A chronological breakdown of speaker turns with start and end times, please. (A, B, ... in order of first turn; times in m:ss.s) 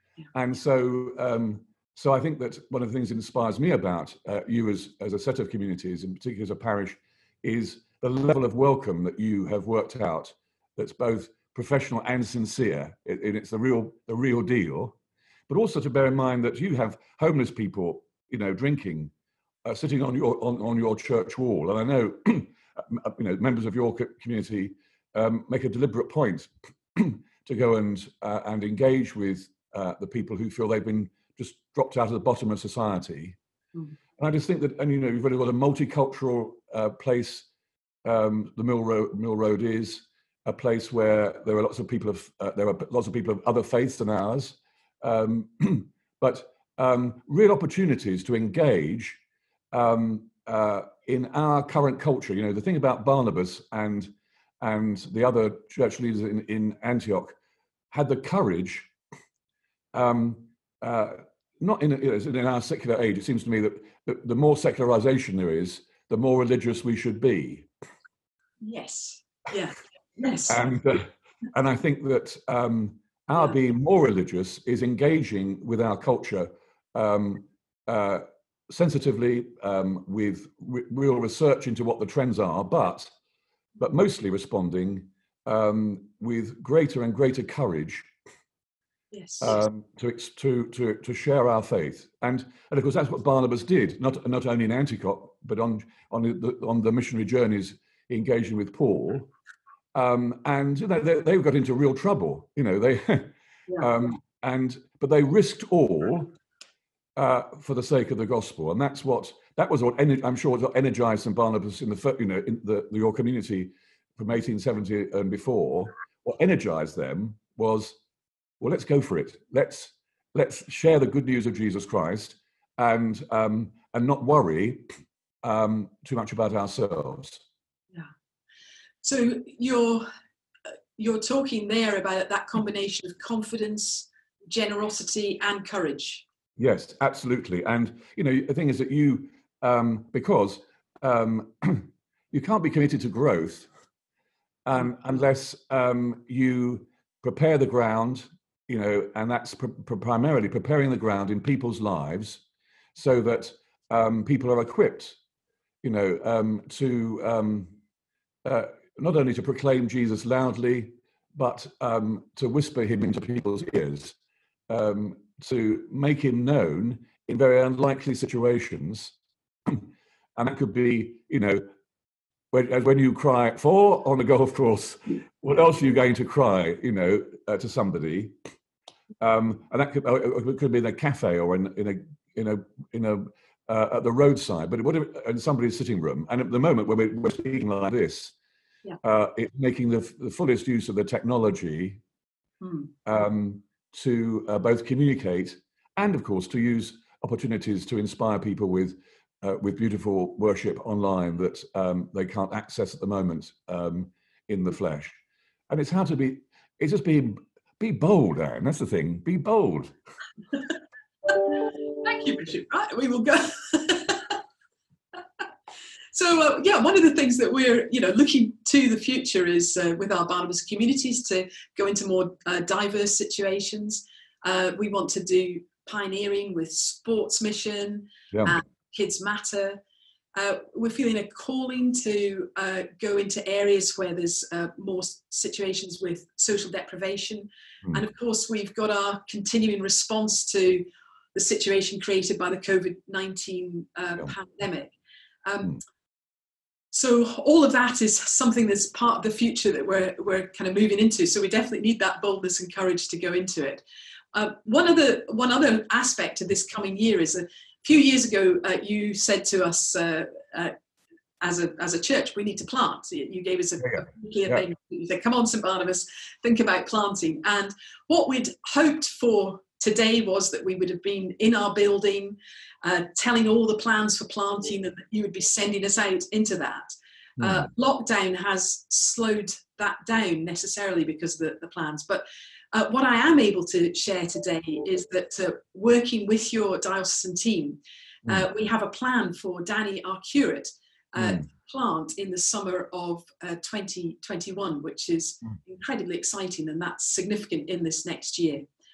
0:00.3-0:15.0 A
0:15.5-0:19.1 A
0:19.6-0:33.4 A
0:34.2-0:37.5 A
0:38.0-0:49.2 A
0:49.7-0:57.4 A
0:57.9-0:58.9 A
0:59.9-1:07.7 A
1:08.6-1:10.6 B
1:10.5-1:23.1 A
1:23.8-1:28.1 A
1:29.1-1:29.6 B
1:29.4-1:39.3 A
1:39.9-1:46.3 A
1:47.2-1:58.0 A
1:58.6-2:04.8 A
2:05.4-2:07.4 A
2:09.0-2:10.1 B
2:11.0-2:16.2 B
2:16.6-2:23.7 A
2:24.6-2:32.4 A
2:32.9-2:35.2 A
2:35.8-2:37.7 A
2:38.4-2:44.2 A
2:44.7-2:49.1 A
2:49.6-2:51.6 A
2:52.5-2:58.3 A
2:59.2-3:08.3 A
3:09.0-3:12.0 A
3:12.6-3:12.9 B
3:13.0-3:25.2 A
3:25.7-3:29.9 A
3:31.2-3:34.4 B
3:36.1-3:49.8 B
3:48.3-3:48.6 A
3:50.4-4:04.9 B
4:05.4-4:05.8 B
4:06.9-4:20.7 B
4:21.4-4:58.6 B
4:23.8-4:24.6 A
4:37.4-4:37.7 A
4:51.2-4:51.4 A